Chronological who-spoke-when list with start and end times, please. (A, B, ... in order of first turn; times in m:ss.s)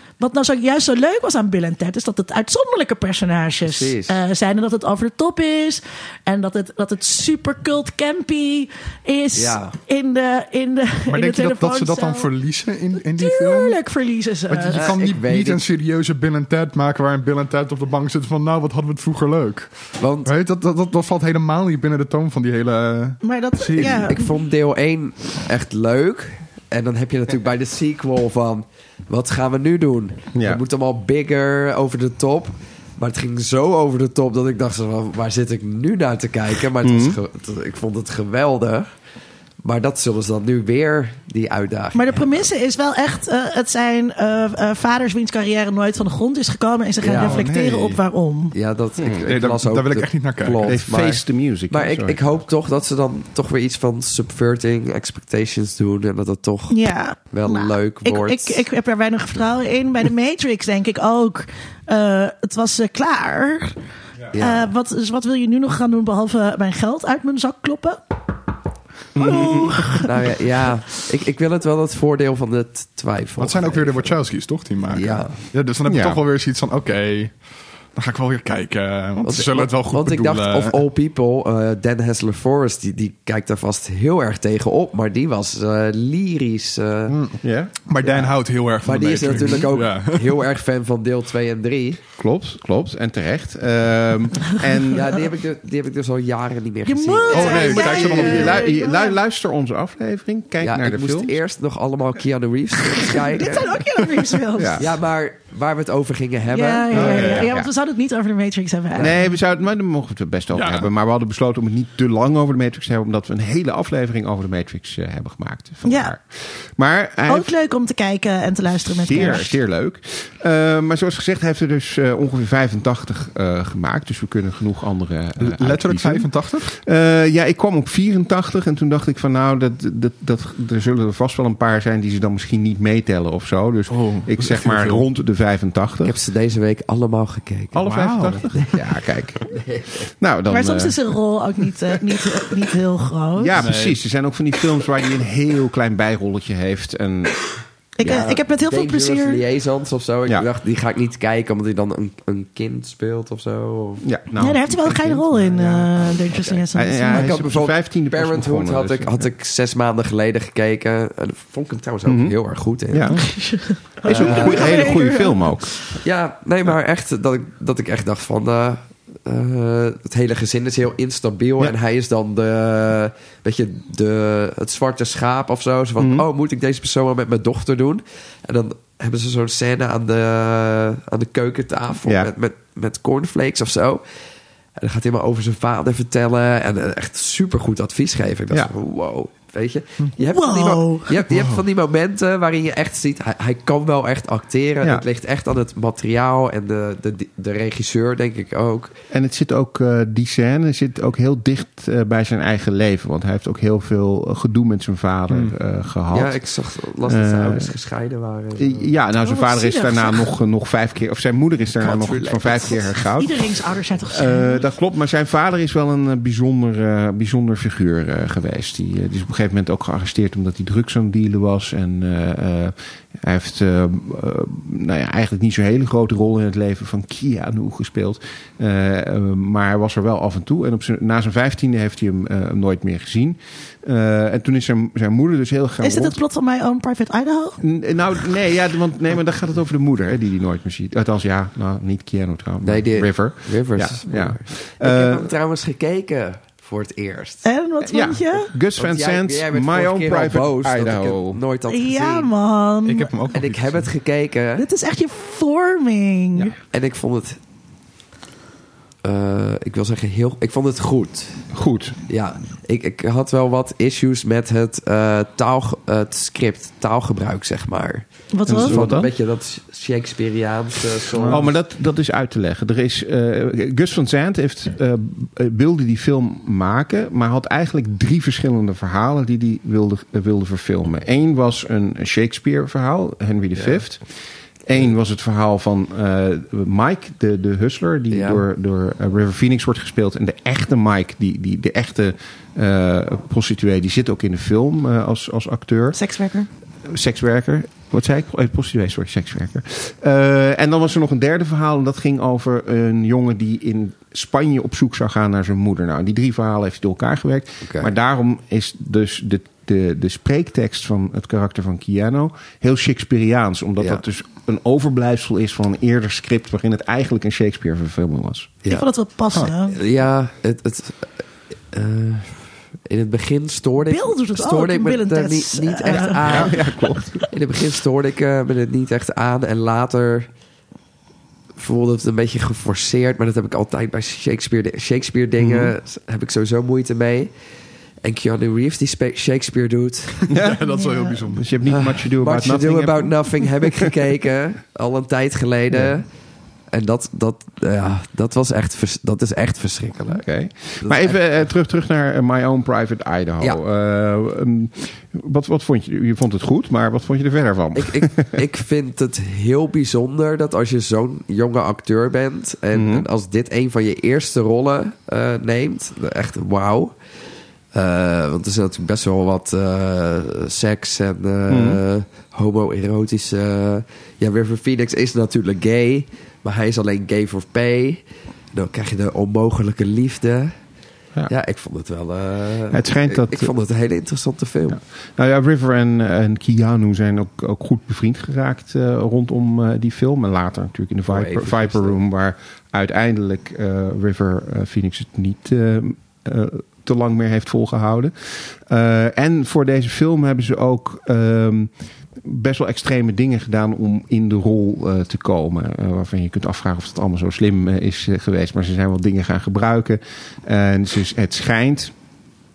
0:00.2-0:12.3 A
0:03.6-0:04.2 B
0:09.3-0:09.8 B
0:11.1-0:13.8 C
0:13.2-0:14.9 A
0:14.5-0:24.1 C
0:14.7-0:15.6 B
0:20.0-0:20.3 B
0:23.2-0:24.3 A
0:23.8-0:38.9 B
0:30.4-0:30.6 D
0:36.8-0:37.2 D
0:39.6-0:42.5 B
0:41.9-0:48.6 A
0:47.0-0:47.5 B
0:47.1-0:48.0 C
0:48.5-0:56.8 B
0:49.0-0:49.3 D
0:49.3-0:50.8 C
0:50.6-0:52.4 D
0:56.7-1:03.8 A
0:57.3-0:58.6 B
1:04.3-1:04.7 B
1:04.3-1:08.2 A
1:09.2-1:10.0 D
1:09.2-1:10.1 A
1:10.0-1:14.2 B
1:13.4-1:17.4 C
1:14.9-1:15.4 B
1:15.9-1:16.2 D
1:18.0-1:20.8 C
1:19.2-1:27.2 B
1:27.1-1:30.3 C
1:27.4-1:27.8 D
1:28.8-1:32.0 B
1:32.2-1:35.2 D
1:34.9-1:37.8 B
1:36.9-1:39.2 A
1:37.3-1:38.7 C
1:37.6-1:41.4 D
1:40.6-1:43.8 B
1:43.2-1:44.8 A
1:44.5-1:44.9 D
1:44.8-1:47.5 B
1:46.5-1:49.3 A
1:46.9-1:47.7 D
1:49.0-1:57.5 D
1:50.5-1:50.9 C
1:55.8-1:56.1 A
1:57.3-1:59.6 A
1:58.9-2:16.2 D
2:05.4-2:06.7 C
2:13.9-2:15.0 C
2:16.0-2:18.8 B
2:17.7-2:19.6 D
2:17.9-2:18.4 C
2:19.5-2:20.1 B
2:20.1-2:21.0 D
2:20.5-2:23.6 A
2:23.4-2:28.3 D
2:23.6-2:24.0 C
2:28.0-2:29.4 A
2:28.0-2:34.0 B
2:34.0-2:35.9 D
2:34.4-2:37.4 A
2:36.3-2:43.1 B
2:36.7-2:39.3 D
2:42.1-2:42.4 D
2:42.9-2:43.2 D
2:43.1-2:45.7 A
2:44.0-2:45.7 D
2:44.0-2:44.9 B
2:46.0-3:04.0 B
2:56.0-2:56.2 D
3:02.0-3:02.3 D
3:04.8-3:18.9 B
3:10.2-3:11.1 A
3:11.3-3:11.6 C
3:19.1-3:26.4 D
3:25.3-3:25.6 C
3:26.1-3:28.9 B
3:27.0-3:27.7 D
3:28.6-3:33.4 D
3:29.2-3:30.3 A
3:31.8-3:33.0 B
3:33.2-3:34.6 A
3:34.1-3:56.2 D
3:55.8-3:57.6 A
3:57.6-4:05.3 D
4:02.6-4:07.5 B
4:07.4-4:08.5 A
4:07.8-4:11.4 D
4:08.8-4:12.3 B
4:11.7-4:13.1 A
4:12.8-4:13.9 C
4:13.3-4:14.7 B
4:14.6-4:16.6 A
4:16.7-4:17.4 B
4:19.0-4:21.4 B
4:21.5-4:22.0 D
4:22.1-4:31.5 B
4:28.3-4:28.8 A
4:28.4-4:29.1 D
4:31.3-4:44.0 D
4:43.6-4:43.8 B
4:44.6-4:56.0 D
4:48.1-4:48.4 B
4:55.9-4:56.5 A
4:56.9-5:18.6 D
5:07.6-5:07.9 B
5:18.7-5:19.8 A
5:19.7-5:21.2 B
5:21.7-5:26.7 B
5:23.9-5:27.2 A
5:26.2-5:27.3 D
5:27.3-5:30.3 B
5:31.6-5:37.3 B
5:35.4-5:35.7 D
5:38.0-5:40.3 B
5:40.3-5:41.5 C
5:40.3-5:40.6 D
5:40.7-5:41.2 A
5:41.2-5:43.7 D
5:41.6-5:46.1 B
5:46.7-5:50.3 B
5:50.1-5:58.4 D
5:50.8-5:51.2 B
5:57.7-6:07.0 B
6:02.7-6:03.1 D
6:07.7-6:20.6 B
6:11.5-6:11.8 D
6:21.3-6:24.8 B
6:22.7-6:23.5 D
6:24.7-6:51.9 D
6:31.1-6:32.0 B